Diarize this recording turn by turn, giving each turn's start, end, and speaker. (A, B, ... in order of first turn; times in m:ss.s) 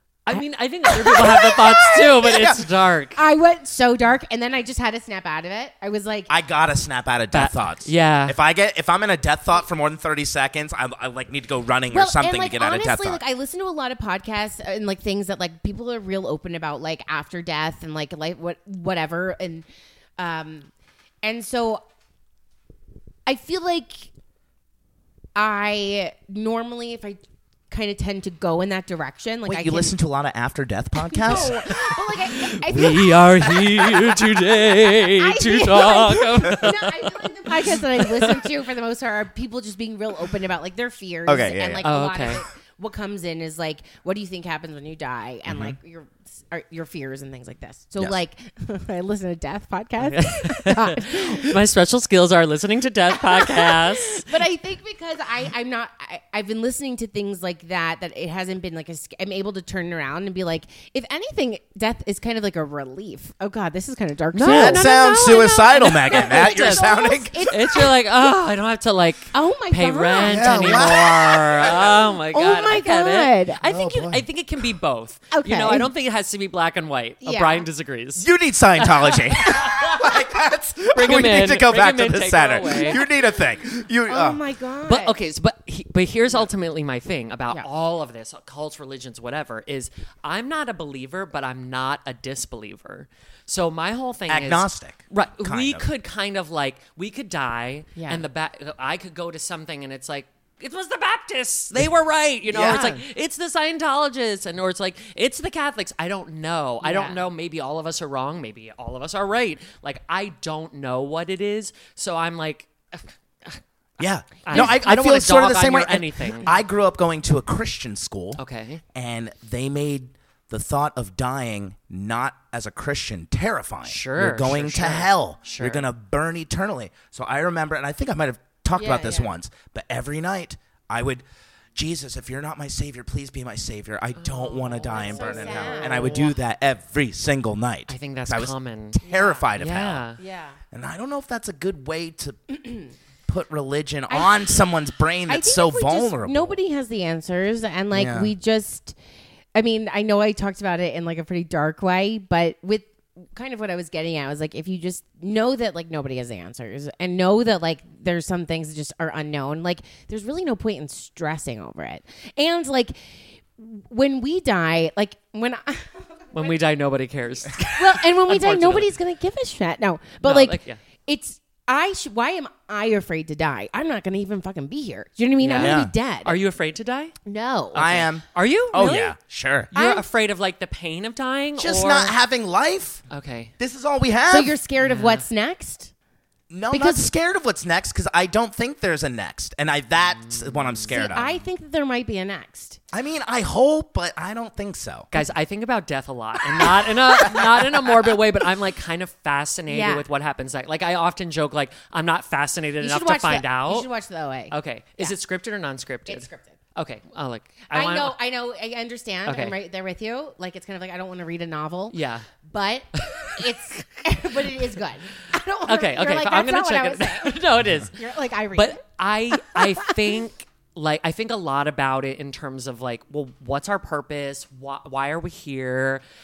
0:00.2-0:03.2 A
0:01.0-0:02.5 B
0:01.1-0:02.6 C
0:03.1-0:06.3 B
0:06.3-0:13.2 C
0:07.3-0:08.4 A
0:11.9-0:19.6 B
0:20.2-0:20.7 B
0:21.2-0:21.8 B
0:23.3-0:24.1 B
0:25.3-0:29.9 B
0:29.4-0:32.0 C
0:31.0-0:34.2 B
0:32.4-0:38.5 A
0:32.7-0:33.7 C
0:34.7-0:51.5 B
0:41.2-0:41.9 C
0:41.8-0:42.4 A
0:45.5-0:45.8 C
0:50.0-0:54.4 A
0:53.1-1:07.9 B
1:04.3-1:20.2 A
1:04.4-1:07.5 C
1:09.3-1:11.0 B
1:10.2-1:12.0 C
1:12.3-1:13.6 B
1:13.6-1:14.2 C
1:15.3-1:15.9 B
1:17.2-1:17.6 B
1:18.2-1:24.4 C
1:20.9-1:23.0 A
1:24.1-1:25.1 B
1:24.8-1:53.6 A
1:34.3-1:35.9 C
1:38.0-1:38.2 B
1:42.5-1:42.9 C
1:42.5-1:43.0 B
1:46.8-1:47.2 B
1:54.0-1:58.4 C
1:54.4-1:56.5 A
1:54.5-1:54.8 B
1:58.4-1:58.8 A
1:58.9-2:11.2 C
2:03.8-2:05.8 A
2:08.7-2:09.3 B
2:11.7-2:20.0 C
2:14.2-2:16.2 A
2:14.8-2:16.4 B
2:17.9-2:19.0 A
2:19.0-2:19.4 B
2:19.6-2:20.2 A
2:20.2-2:20.6 B
2:20.7-2:22.6 C
2:23.3-2:26.6 C
2:24.1-2:24.4 B
2:25.3-2:29.0 B
2:27.9-2:28.3 C
2:29.5-2:43.0 B
2:43.6-2:46.5 B
2:46.3-2:48.9 A
2:47.6-2:56.4 B
2:50.2-2:50.8 A
2:55.4-2:57.1 A
2:55.6-2:55.9 C
2:57.2-2:58.0 B
2:57.7-2:59.7 C
2:57.8-2:59.1 A
2:59.7-3:02.1 A
2:59.7-3:00.0 B
3:01.6-3:03.0 C
3:03.1-3:03.5 A
3:03.6-3:04.5 C
3:04.3-3:05.9 B
3:04.8-3:05.2 A
3:06.5-3:11.3 C
3:06.7-3:07.1 B
3:10.0-3:11.0 A
3:10.9-3:12.8 B
3:12.9-3:15.1 C
3:15.1-3:23.9 A
3:17.2-3:17.9 C
3:19.7-3:20.0 B
3:22.8-3:25.1 B
3:24.5-3:28.2 A
3:26.1-3:26.6 B
3:27.7-3:38.8 B
3:29.2-3:29.6 A
3:31.9-3:32.3 A
3:33.0-3:33.4 A
3:35.7-3:38.0 A
3:38.5-3:46.0 A
3:39.3-3:39.9 B